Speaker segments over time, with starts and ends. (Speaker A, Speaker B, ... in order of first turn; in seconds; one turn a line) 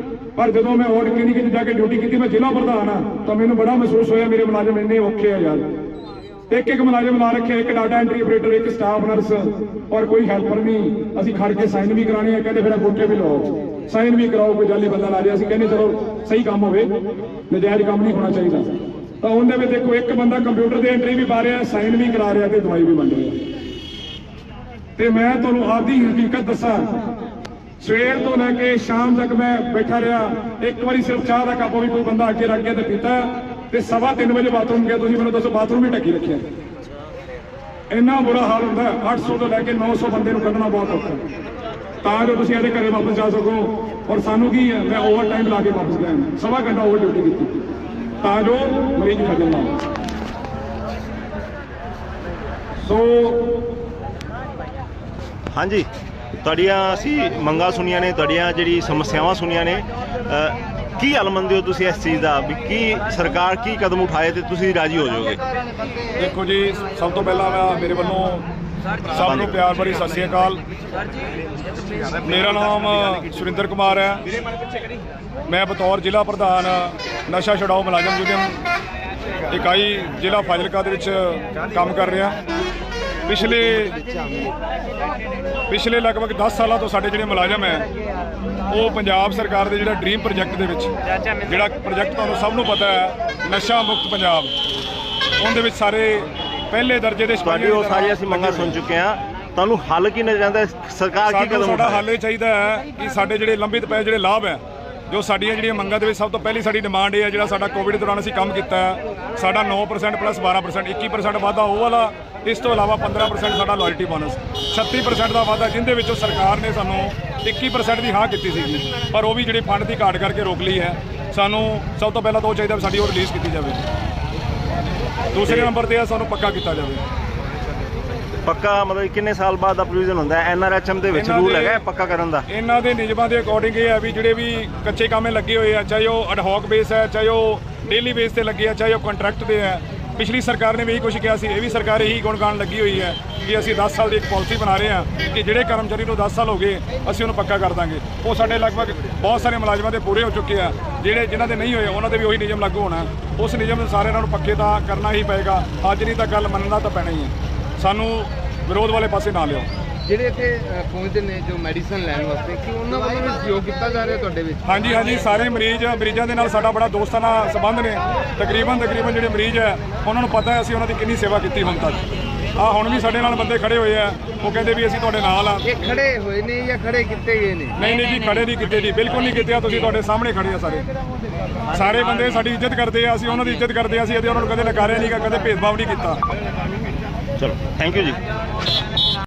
Speaker A: 0.4-5.6
Speaker A: 6.5-16.9
Speaker A: 17.5-18.7
Speaker A: 19.2-23.4
Speaker A: 25.0-26.9
Speaker A: 27.8-36.4
Speaker A: 37.9-41.2
Speaker A: 42.0-47.5
Speaker A: 48.2-49.8
Speaker A: 52.8-53.6
Speaker B: 55.5-55.9
Speaker B: 56.4-65.4
Speaker A: 66.2-68.5
Speaker A: 69.1-70.6
Speaker B: 69.1-69.5
Speaker A: 72.2-74.2
Speaker A: 75.5-78.6
Speaker A: 79.5-82.4
Speaker A: 83.3-84.0
Speaker A: 85.7-87.8
Speaker A: 88.7-90.9
Speaker A: 91.4-94.5
Speaker A: 95.4-98.8
Speaker B: 97.4-102.0
Speaker A: 101.3-123.8
Speaker A: 125.3-127.0
Speaker B: 125.4-125.7
Speaker B: 128.4-132.4
Speaker A: 131.1-131.8
Speaker A: 132.5-159.7
Speaker C: 160.1-164.7
Speaker A: 164.6-175.7
Speaker C: 175.7-177.8
Speaker A: 177.8-180.8
Speaker A: 181.7-186.2
Speaker B: 187.4-188.2